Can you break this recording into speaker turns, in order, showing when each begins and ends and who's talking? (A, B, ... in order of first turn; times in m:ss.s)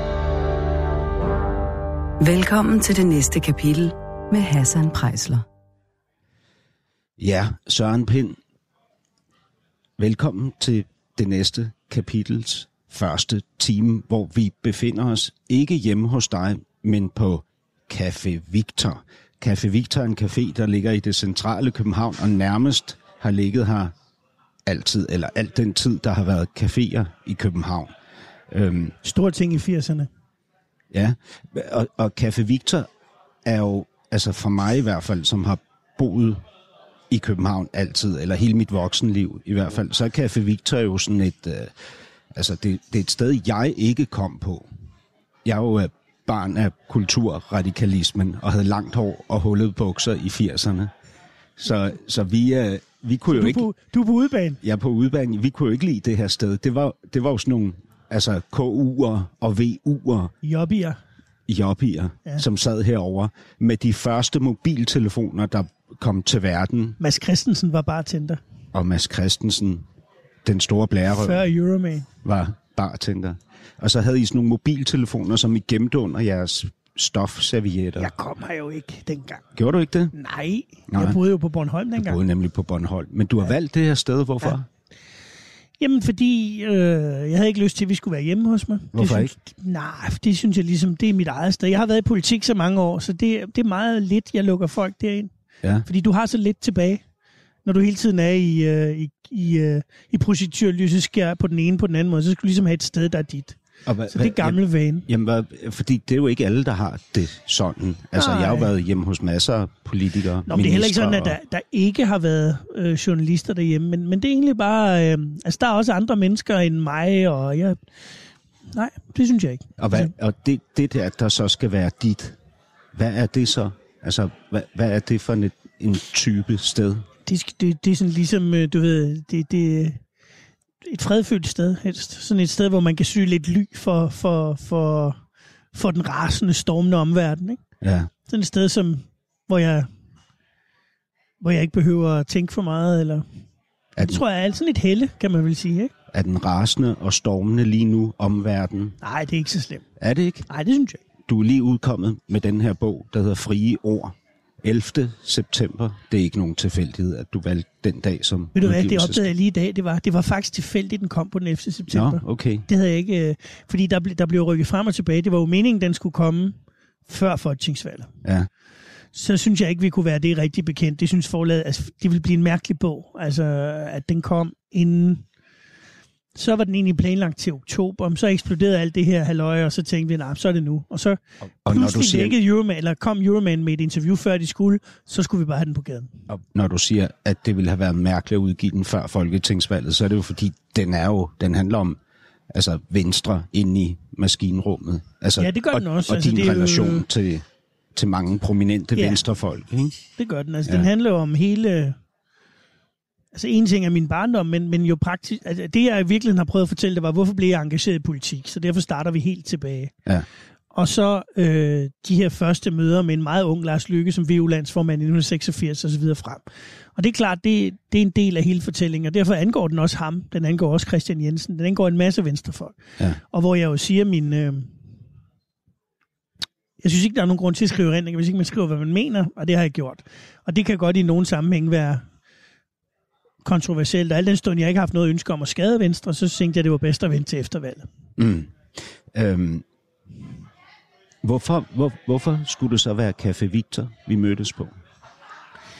0:02.2-0:05.4 A
0:07.2-0:08.4 B
0:10.0-0:23.9 B
0:24.7-0:27.9 B
0:28.5-0:29.0 B
0:29.0-0:30.1 C
0:30.9-0:32.9 B
0:33.4-0:36.4 B
0:37.1-0:41.8 B
0:42.3-0:44.7 B
0:45.4-0:50.9 B
0:51.6-0:53.7 B
0:53.3-0:54.6 C
0:54.6-1:00.3 B
1:00.4-1:01.0 C
1:01.5-1:07.0 B
1:07.0-1:08.4 C
1:08.7-1:09.9 B
1:10.4-1:11.4 B
1:11.1-1:12.1 C
1:12.2-1:18.1 B
1:18.0-1:19.4 C
1:19.6-1:20.1 B
1:20.1-1:22.2 C
1:20.9-1:21.2 B
1:22.0-1:24.7 B
1:25.8-1:35.3 C
1:28.9-1:29.3 B
1:35.9-1:37.0 C
1:37.6-1:43.6 C
1:43.9-1:51.4 B
1:44.1-1:45.1 C
1:48.1-1:48.7 C
1:50.5-1:57.8 C
1:58.7-2:00.1 C
1:59.8-2:02.4 B
2:02.9-2:07.1 B
2:07.3-2:10.0 C
2:10.8-2:15.2 C
2:15.7-2:17.6 C
2:17.8-2:18.1 B
2:18.3-2:19.9 C
2:21.4-2:23.2 C
2:24.0-2:24.2 B
2:24.0-2:25.9 C
2:26.1-2:29.0 B
2:29.0-2:29.8 C
2:30.0-2:30.5 B
2:30.5-2:31.0 C
2:31.3-2:39.3 B
2:38.6-2:46.6 C
2:41.9-2:42.7 B
2:47.1-2:48.1 C
2:49.1-2:55.2 C
2:56.4-3:06.1 C
3:01.6-3:02.4 B
3:06.3-3:12.0 B
3:12.5-3:20.0 B
3:15.4-3:17.1 C
3:20.2-3:22.0 C
3:23.3-3:29.9 C
3:30.7-3:36.4 C
3:37.0-3:44.7 C
3:46.8-3:52.0 C
3:53.4-3:57.9 C
3:58.2-3:59.6 B
4:01.2-4:04.8 B